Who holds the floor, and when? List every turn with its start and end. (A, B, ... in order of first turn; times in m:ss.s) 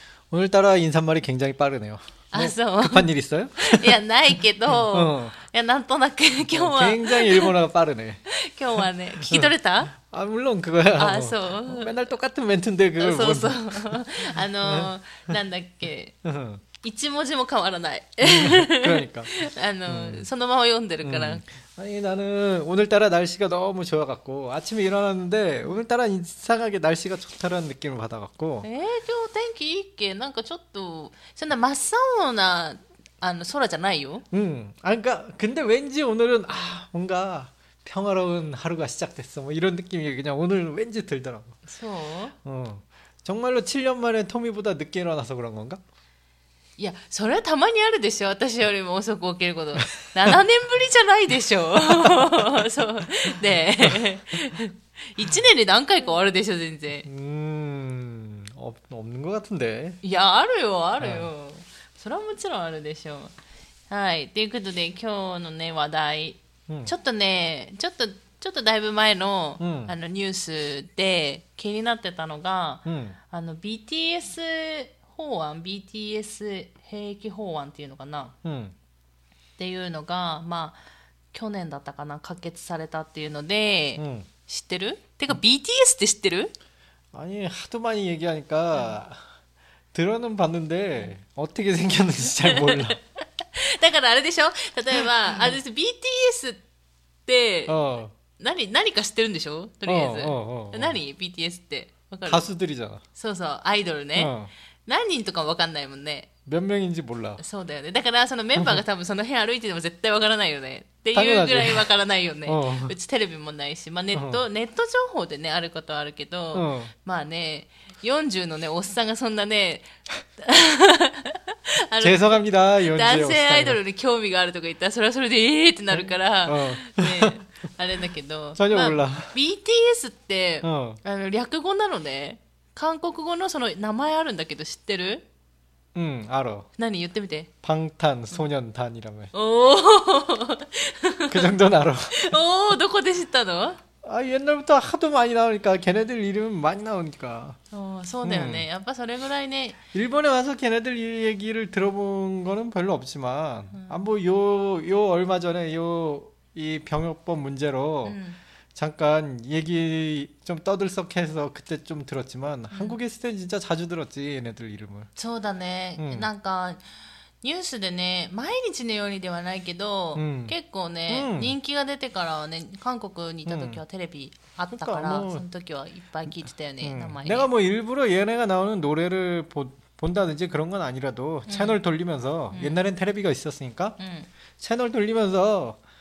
0:00.3-0:04.0 A
0:02.3-0:07.5 B
0:04.7-0:05.3 A
0:06.4-0:08.2 A
0:08.3-0:09.9 B
0:09.2-0:14.0 A
0:11.0-0:12.0 B
0:13.0-0:16.2 B
0:14.6-0:15.4 A
0:16.2-0:16.6 A
0:16.8-0:21.4 B
0:18.2-0:19.3 A
0:19.9-0:20.3 A
0:21.0-0:28.7 A
0:28.6-0:34.2 B
0:34.3-0:41.6 A
0:41.7-0:42.3 B
0:42.4-0:45.8 A
0:46.8-0:57.1 B
0:57.1-1:00.0 A
1:00.0-1:03.3 B
1:01.0-1:01.3 A
1:03.9-1:18.3 B
1:09.6-1:09.9 A
1:12.9-1:13.2 A
1:18.4-1:18.7 A
1:19.6-1:20.8 B
1:21.3-1:26.5 B
1:24.0-1:24.3 A
1:27.1-1:29.2 A
1:29.9-1:33.0 A
1:32.4-1:36.6 B
1:37.2-1:37.8 B
1:37.7-1:38.1 A
1:38.4-1:42.5 B
1:39.9-1:41.0 A
1:42.2-1:43.0 A
1:43.2-1:44.3 B
1:44.2-1:44.5 A
1:44.9-1:46.3 B
1:46.4-1:47.4 A
1:47.4-2:15.2 B
1:51.1-1:51.8 A
1:52.4-1:53.0 A
1:54.1-1:54.4 A
1:56.5-1:56.9 A
2:02.0-2:03.8 A
2:05.9-2:07.3 A
2:08.6-2:09.4 A
2:10.6-2:11.0 A
2:15.9-2:16.7 A
2:16.8-2:17.5 B
2:17.6-2:19.3 A
2:19.3-2:21.6 B
2:21.3-2:22.4 A
2:22.1-2:23.8 B
2:24.0-2:27.6 A
2:27.7-2:29.8 B
2:28.2-2:28.6 A
2:29.9-2:38.2 A
2:38.0-2:38.4 B
2:38.8-2:45.1 A
2:42.7-2:43.0 B
2:45.2-2:46.8 B
2:46.0-2:46.3 A
2:47.4-2:57.5 B
2:50.2-2:50.6 A
2:51.1-2:51.5 A
2:53.4-2:53.8 A
2:54.7-2:55.4 A
2:56.3-3:04.0 A
3:01.5-3:01.8 B
3:02.5-3:02.8 B
3:04.0-3:04.3 B
3:04.6-3:05.8 A